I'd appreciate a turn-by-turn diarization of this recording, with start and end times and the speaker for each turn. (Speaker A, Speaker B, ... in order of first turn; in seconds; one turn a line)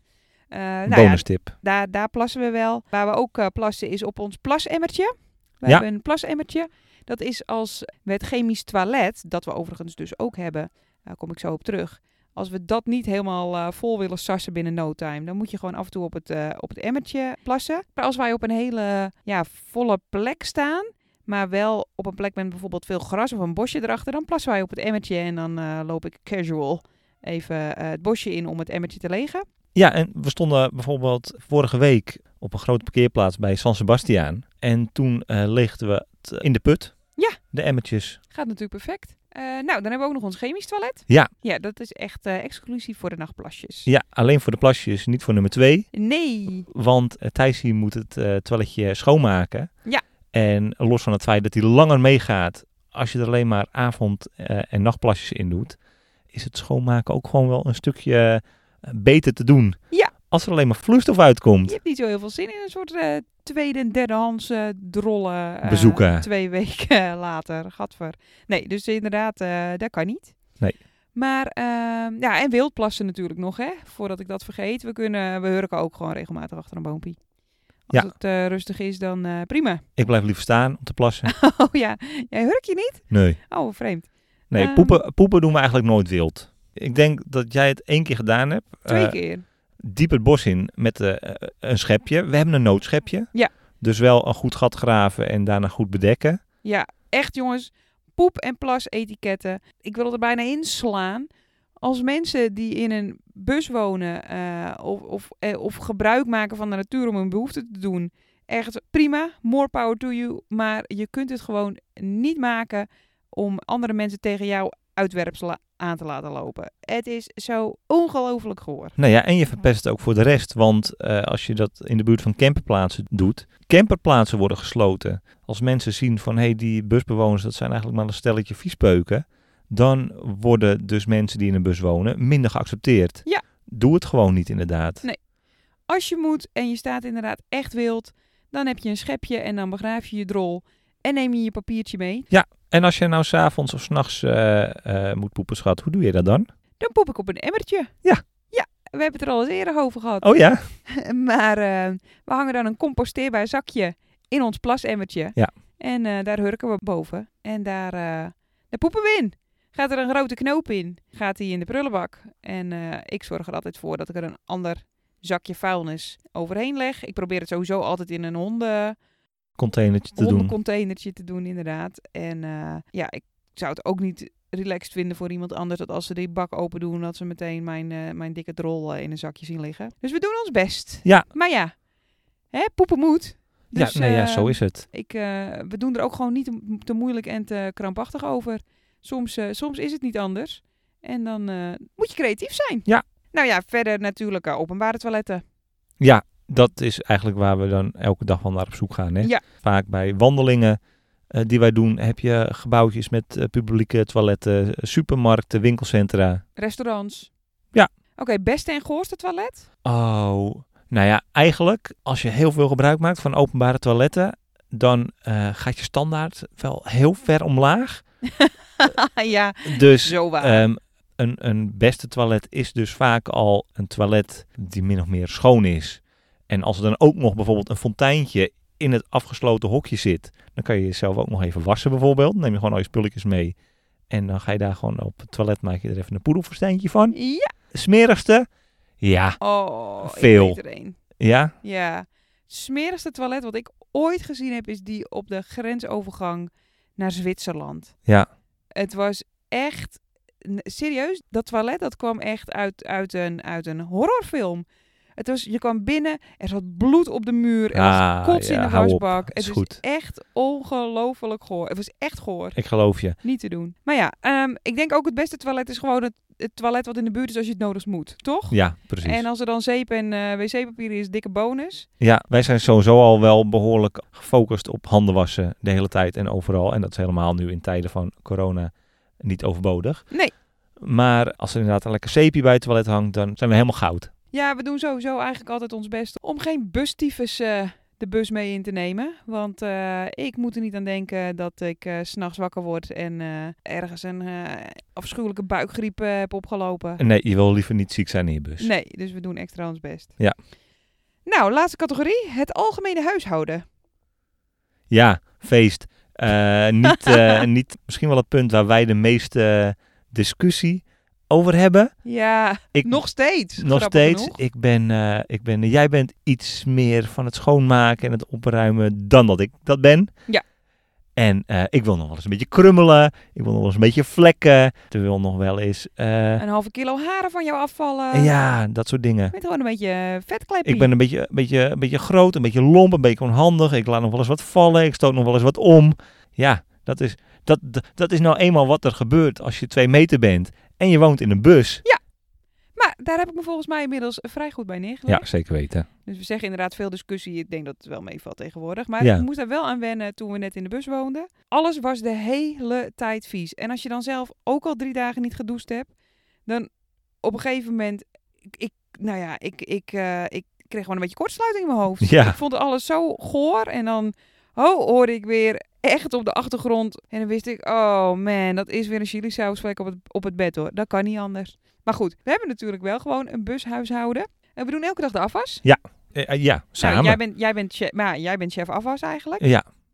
Speaker A: 0.5-29.4
Speaker B: 0.9-1.5
Speaker B: 29.7-37.0
Speaker B: 37.5-38.2
Speaker A: 38.3-43.9
Speaker B: 43.9-45.9
Speaker A: 45.9-46.7
Speaker B: 46.7-49.7
Speaker B: 50.3-55.8
Speaker B: 56.3-61.8
Speaker A: 61.6-70.3
Speaker B: 65.6-66.2
Speaker A: 71.1-77.2
Speaker A: 77.9-79.8
Speaker B: 80.0-81.3
Speaker A: 81.2-85.0
Speaker B: 83.1-83.4
Speaker B: 84.5-89.2
Speaker A: 88.8-89.4
Speaker B: 89.8-96.4
Speaker A: 96.6-101.3
Speaker A: 101.8-119.0
Speaker B: 119.0-135.0
Speaker A: 135.9-142.3
Speaker B: 142.3-146.5
Speaker A: 146.8-147.9
Speaker A: 148.5-150.3
Speaker B: 150.2-150.6
Speaker A: 150.9-168.9
Speaker B: 169.6-170.5
Speaker A: 170.2-181.8
Speaker A: 182.5-195.4
Speaker B: 183.7-184.8
Speaker B: 196.0-200.8
Speaker B: 201.3-206.4
Speaker A: 206.6-207.3
Speaker A: 208.2-209.7
Speaker B: 209.8-218.0
Speaker A: 218.2-220.6
Speaker B: 219.6-233.5
Speaker B: 234.1-237.1
Speaker A: 237.1-237.5
Speaker B: 237.7-238.5
Speaker B: 239.0-239.4
Speaker A: 239.4-241.0
Speaker B: 240.0-240.6
Speaker B: 241.2-241.5
Speaker A: 241.6-247.9
Speaker A: 248.8-254.6
Speaker A: 255.2-262.6
Speaker B: 257.7-259.8
Speaker B: 262.6-263.2
Speaker A: 263.2-271.9
Speaker B: 268.5-269.2
Speaker B: 272.0-280.1
Speaker B: 280.8-284.1
Speaker A: 284.3-297.0
Speaker B: 297.0-298.7
Speaker A: 298.6-300.2
Speaker A: 301.2-303.6
Speaker B: 304.9-311.9
Speaker A: 306.9-307.4
Speaker A: 312.0-314.4
Speaker B: 312.7-313.0
Speaker B: 313.6-320.1
Speaker B: 321.1-326.4
Speaker A: 326.4-328.3
Speaker B: 328.1-329.3
Speaker A: 329.3-330.9
Speaker B: 330.6-341.8
Speaker A: 342.8-345.3
Speaker B: 345.1-345.9
Speaker A: 346.0-355.9
Speaker B: 349.0-349.2
Speaker A: 357.2-375.6
Speaker B: 362.0-362.4
Speaker B: 375.6-377.2
Speaker A: 376.8-379.4